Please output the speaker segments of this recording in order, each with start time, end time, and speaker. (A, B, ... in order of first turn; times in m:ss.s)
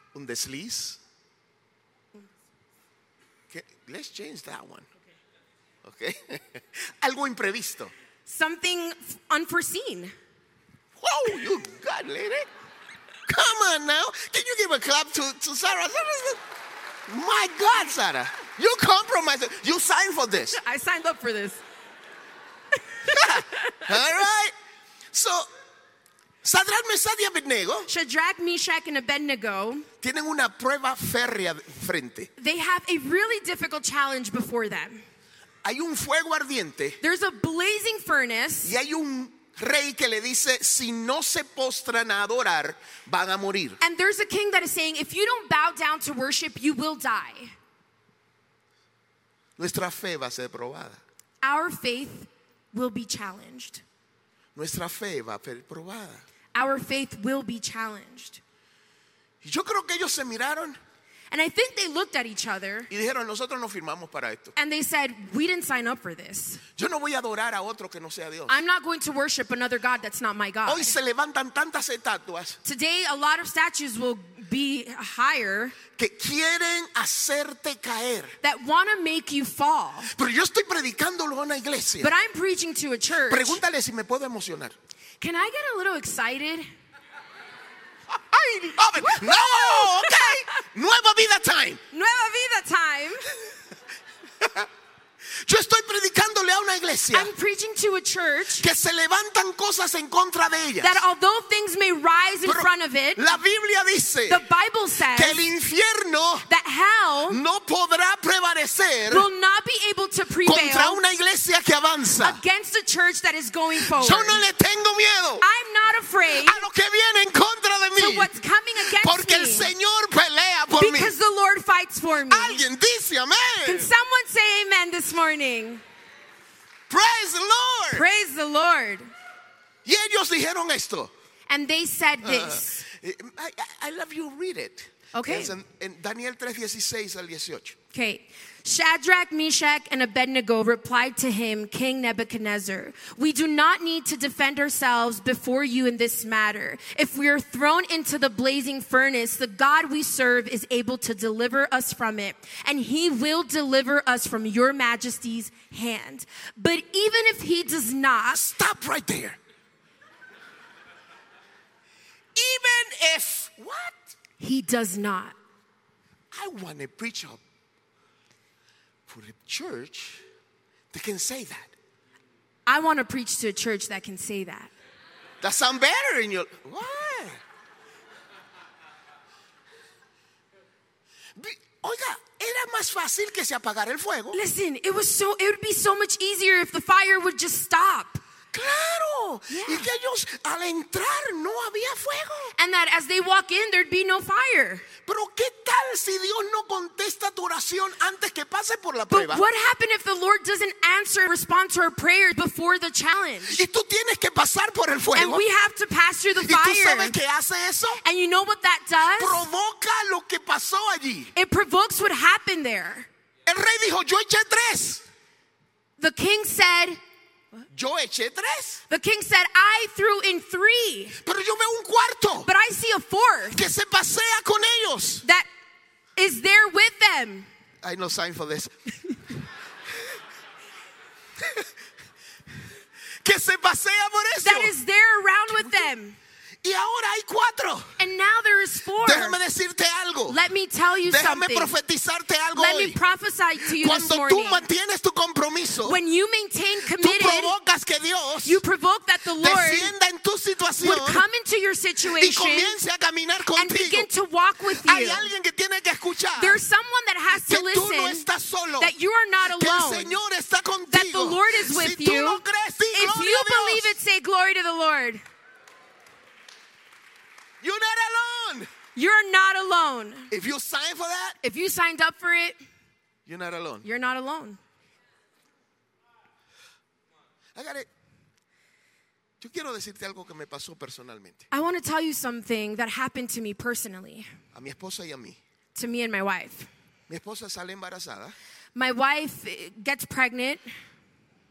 0:00.1-0:01.0 A
0:03.5-0:04.9 A
0:05.8-0:07.9 A
0:08.3-0:10.1 B
0:11.0-0:12.5 A
0:13.3-0:16.4 A
0:17.1-0:20.6 A
0:20.5-0:21.6 B
0:23.0-0:23.9 B
0:23.1-0:24.5 A
0:25.1-0:25.5 A
0:26.4-0:27.9 A
0:27.9-0:29.9 B
0:30.0-0:32.3 A
0:32.4-0:35.0 B
0:35.6-0:37.0 A
0:37.0-0:38.8 B
0:38.6-0:43.8 A
0:43.8-0:47.5 B
0:49.6-0:51.0 A
0:51.4-0:53.8 B
0:54.6-0:56.2 A
0:56.6-0:58.4 B
0:59.4-1:00.8 A
1:01.3-1:02.9 B
1:02.9-1:04.6 A
1:04.6-1:06.6 B
1:06.8-1:08.6 A
1:08.5-1:11.0 B
1:10.7-1:12.6 A
1:12.6-1:15.8 B
1:15.9-1:18.4 A
1:18.4-1:20.1 B
1:20.1-1:22.1 A
1:22.0-1:23.6 B
1:23.3-1:24.8 A
1:25.2-1:26.7 B
1:28.3-1:31.8 A
1:28.4-1:30.5 B
1:31.9-1:33.3 B
1:34.4-1:34.7 A
1:35.3-1:37.3 A
1:37.1-1:38.7 B
1:38.6-1:41.0 A
1:40.8-1:43.2 B
1:42.4-1:44.4 A
1:44.3-1:45.5 B
1:45.1-1:46.5 A
1:46.5-1:47.4 B
1:47.3-1:49.3 A
1:49.1-1:51.0 B
1:50.4-1:52.4 A
1:52.2-1:54.4 B
1:53.8-1:55.5 A
1:55.4-1:56.6 B
1:56.3-2:01.2 A
1:58.0-1:59.7 B
2:00.8-2:02.6 B
2:02.2-2:03.9 A
2:03.6-2:05.8 B
2:06.9-2:08.1 A
2:07.9-2:09.1 B
2:09.8-2:11.1 A
2:11.5-2:12.8 B
2:12.2-2:17.8 A
2:15.1-2:15.5 B
2:17.9-2:38.5 B
2:38.3-2:39.4 A
2:42.4-2:44.1 A
2:44.4-2:45.4 B
2:46.3-2:47.4 A
2:49.1-2:50.2 A
2:50.9-2:51.7 A
2:52.7-2:54.7 B
2:55.4-2:57.4 A
3:01.4-3:04.4 A
3:04.3-3:08.2 B
3:08.5-3:12.6 A
3:09.5-3:09.9 B
3:12.6-3:14.9 B
3:15.0-3:19.4 A
3:19.1-3:23.6 B
3:23.5-3:25.4 A
3:25.1-3:27.2 B
3:26.4-3:28.0 A
3:28.0-3:29.5 B
3:29.1-3:31.3 A
3:31.4-3:33.1 B
3:33.4-3:35.0 A
3:36.0-3:37.0 B
3:37.7-3:38.8 A
3:38.9-3:41.2 B
3:41.2-3:42.5 A
3:42.4-3:43.6 B
3:43.5-3:45.2 A
3:46.2-3:47.5 B
3:47.8-3:48.7 A
3:51.4-3:51.7 A
3:53.2-3:54.8 A
3:54.4-3:56.2 B
3:55.5-3:55.9 A
3:56.6-3:58.0 A
3:58.0-3:59.4 B
3:59.0-4:00.4 A
4:00.3-4:01.7 B
4:01.0-4:03.0 A
4:02.6-4:04.7 B
4:03.6-4:06.0 A
4:05.8-4:07.5 B
4:06.9-4:08.6 A
4:08.4-4:09.9 B
4:09.4-4:11.3 A
4:10.8-4:12.8 B
4:12.0-4:14.1 A
4:13.5-4:15.3 B
4:14.7-4:16.6 A
4:16.4-4:18.3 B
4:17.3-4:24.0 A
4:18.8-4:20.2 B
4:20.9-4:25.2 B
4:27.6-4:28.7 A
4:29.0-4:30.3 B
4:30.3-4:31.4 A
4:31.4-4:32.6 B
4:33.3-4:33.9 A
4:33.8-4:34.6 B
4:37.6-4:37.9 A
4:39.4-4:41.5 A
4:41.5-4:44.3 B
4:44.5-4:45.4 A
4:45.8-4:46.7 B
4:47.1-4:48.4 A
4:48.8-4:50.7 B